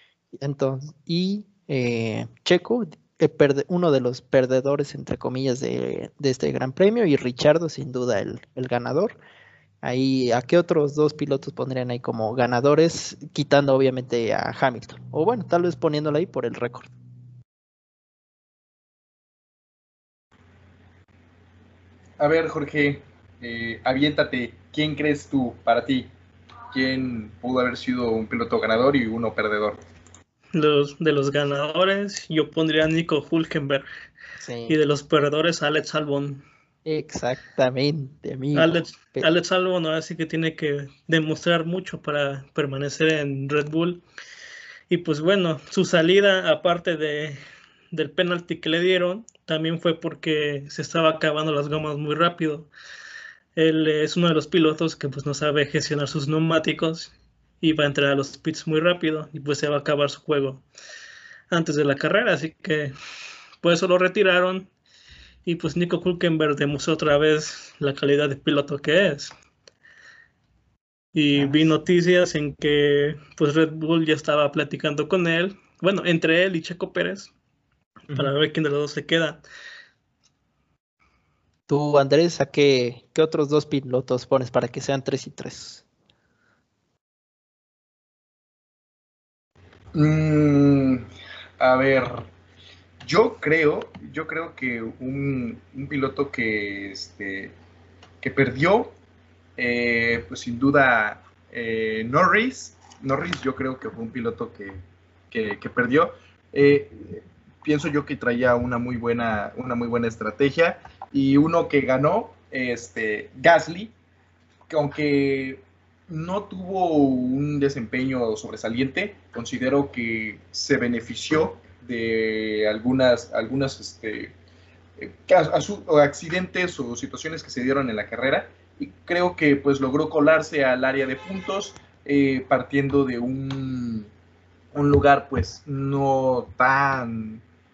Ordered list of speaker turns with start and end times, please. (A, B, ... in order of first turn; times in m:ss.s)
0:00.4-0:09.2 A
0:09.8-0:16.9 A
0:22.2-0:26.1 B
0:26.7-0:29.8 B
0:30.5-0:33.8 C
0:34.4-0:34.8 A
0:34.7-0:36.4 C
0:36.8-0:39.3 A
0:38.5-0:44.0 C
0:44.9-0:47.4 C
0:47.9-0:52.7 C
0:53.6-1:00.6 C
1:01.5-1:02.9 C
1:03.6-1:04.7 C
1:05.4-1:09.3 C
1:11.1-1:17.3 C
1:11.3-1:11.7 A
1:18.1-1:19.4 C
1:21.7-1:25.8 A
1:29.9-1:31.0 B
1:31.6-1:32.3 B
1:33.0-1:37.6 B
1:38.2-1:38.9 B
1:39.6-1:53.9 B
1:54.7-2:04.3 B
2:05.0-2:14.1 B
2:14.7-2:17.4 B